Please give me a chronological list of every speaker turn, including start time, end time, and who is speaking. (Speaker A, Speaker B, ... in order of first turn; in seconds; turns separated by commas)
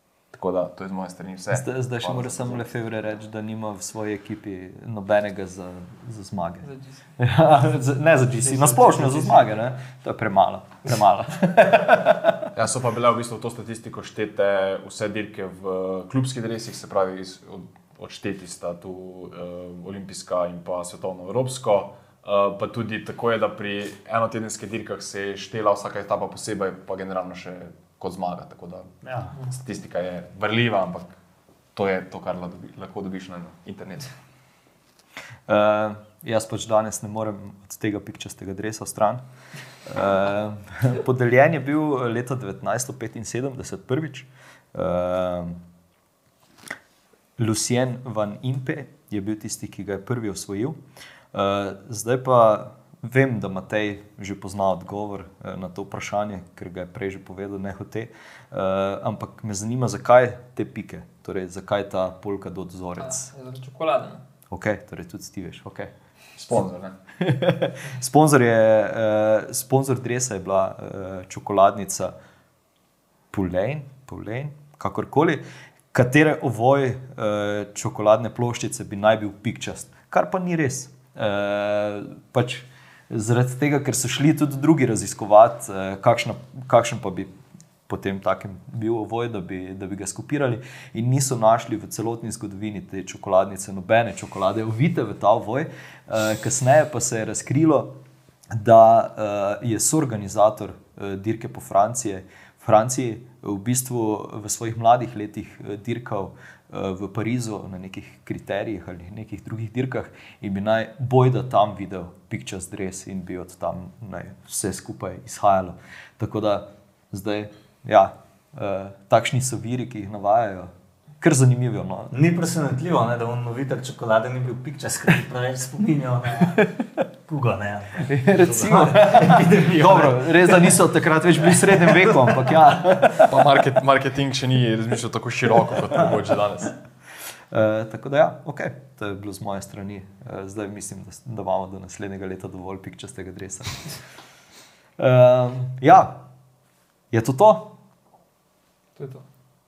Speaker A: 0.3-3.0, Speaker B: 1.5-12.5, Speaker C: 6.6-7.0, Speaker C: 8.4-9.5, Speaker A: 12.5-31.1, Speaker D: 29.0-29.4, Speaker A: 31.7-34.1, Speaker B: 35.5-39.2, Speaker B: 39.9-45.6, Speaker B: 47.4-50.8, Speaker B: 51.3-63.3, Speaker C: 63.0-64.2, Speaker B: 64.5-65.9, Speaker A: 66.4-66.9, Speaker B: 67.2-72.1, Speaker B: 73.3-87.3, Speaker B: 87.9-97.9, Speaker B: 98.5-122.1, Speaker D: 122.1-126.7, Speaker D: 127.2-130.8, Speaker B: 128.0-133.5, Speaker A: 133.2-136.7, Speaker B: 137.5-143.9, Speaker B: 145.0-146.2, Speaker B: 147.1-147.7, Speaker C: 149.0-149.2